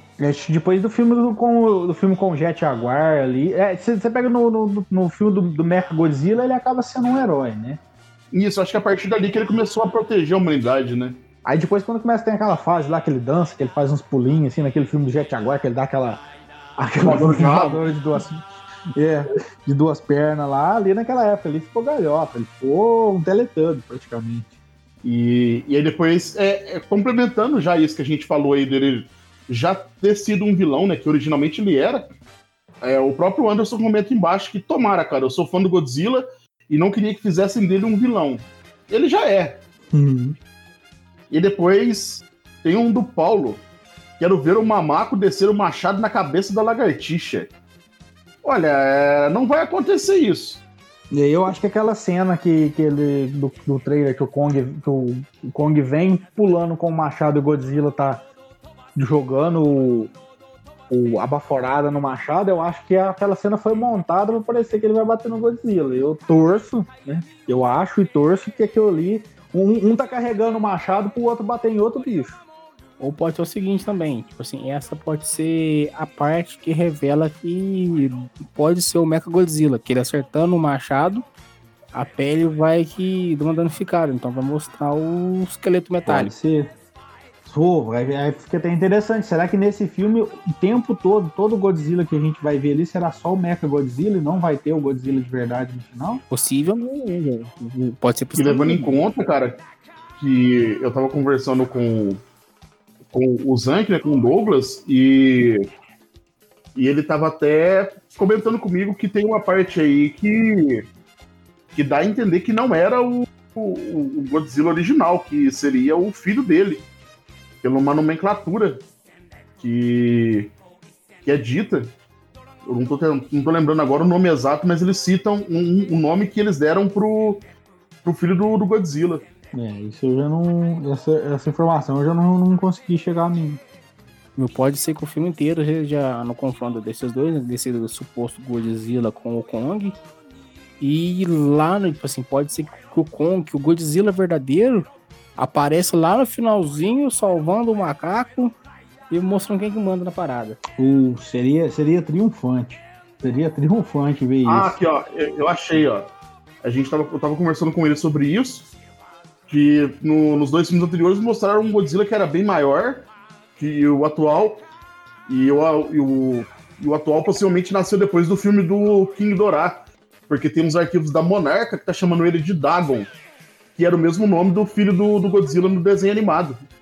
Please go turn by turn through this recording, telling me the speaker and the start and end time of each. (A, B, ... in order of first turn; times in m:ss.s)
0:00.2-0:07.8 A
0:08.3-0:11.2 B
0:11.4-0:16.2 A
0:16.8-0:18.4 A
0:17.0-0:17.8 B
0:18.9-0:24.5 A
0:25.0-0:32.0 B
0:32.8-0:39.6 B
0:39.9-0:40.4 A
0:41.3-0:43.6 B
0:44.2-0:47.5 B
0:48.4-0:50.6 B
0:51.1-0:58.2 A
0:58.9-1:00.1 A
1:00.9-1:12.4 A
1:13.0-1:21.2 C
1:21.9-1:26.3 C
1:26.0-1:26.7 A
1:27.4-1:36.2 A
1:36.3-1:39.0 C
1:38.4-1:39.6 B
1:40.2-1:42.2 B
1:43.1-1:45.6 B
1:46.8-1:50.9 B
1:51.7-1:56.9 B
1:57.6-1:58.8 B
1:59.6-2:00.5 B
2:01.2-2:01.9 B
2:02.6-2:07.4 B
2:08.0-2:09.2 B
2:09.5-2:13.6 A
2:14.4-2:20.0 C
2:20.8-2:28.6 C
2:29.1-2:30.6 C
2:30.8-2:34.8 A
2:34.4-2:36.1 B
2:36.6-2:38.7 B
2:39.5-2:44.6 B
2:45.3-2:53.1 B
2:53.7-2:56.6 B